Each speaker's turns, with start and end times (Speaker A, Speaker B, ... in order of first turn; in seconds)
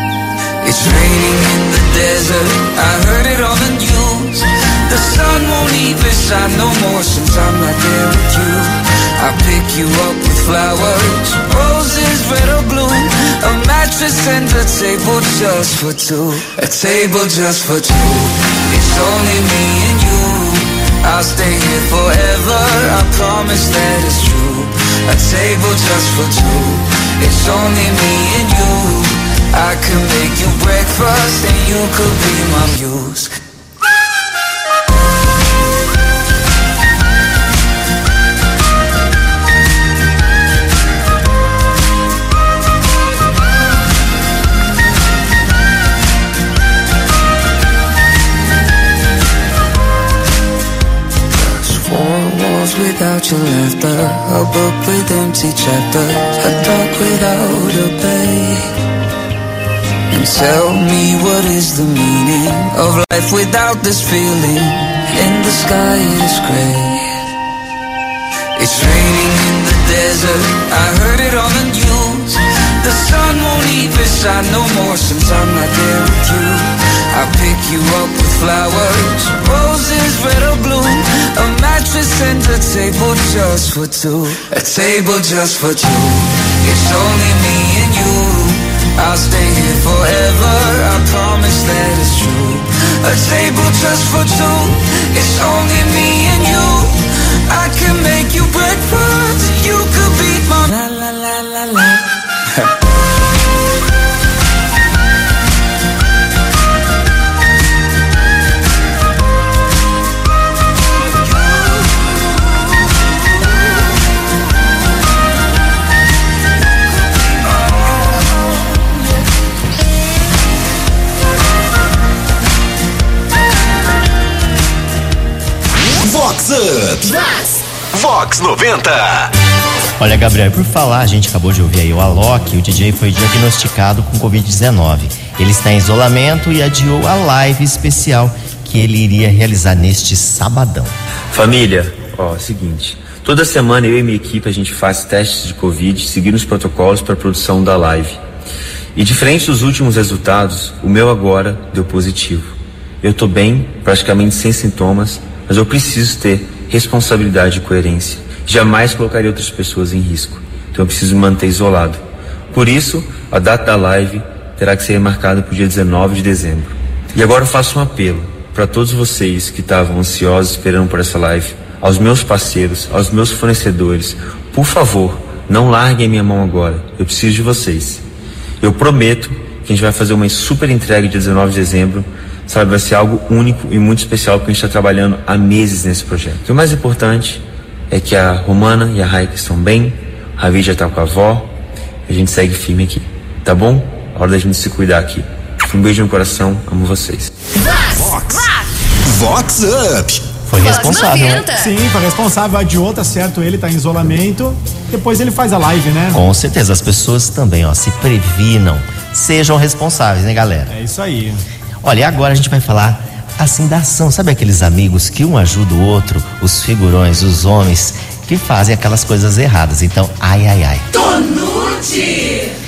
Speaker A: 0.6-33.3, 51.3-58.6, 60.1-67.0, 68.5-97.0, 97.5-102.0
Speaker B: 126.0-129.3, 197.9-198.5, 199.1-200.2
Speaker C: 130.0-140.9, 200.5-201.5, 206.1-210.7, 211.8-220.9
Speaker D: 141.3-148.2, 148.9-178.0, 178.6-191.5, 192.1-197.3
Speaker E: 201.5-206.2, 210.7-211.4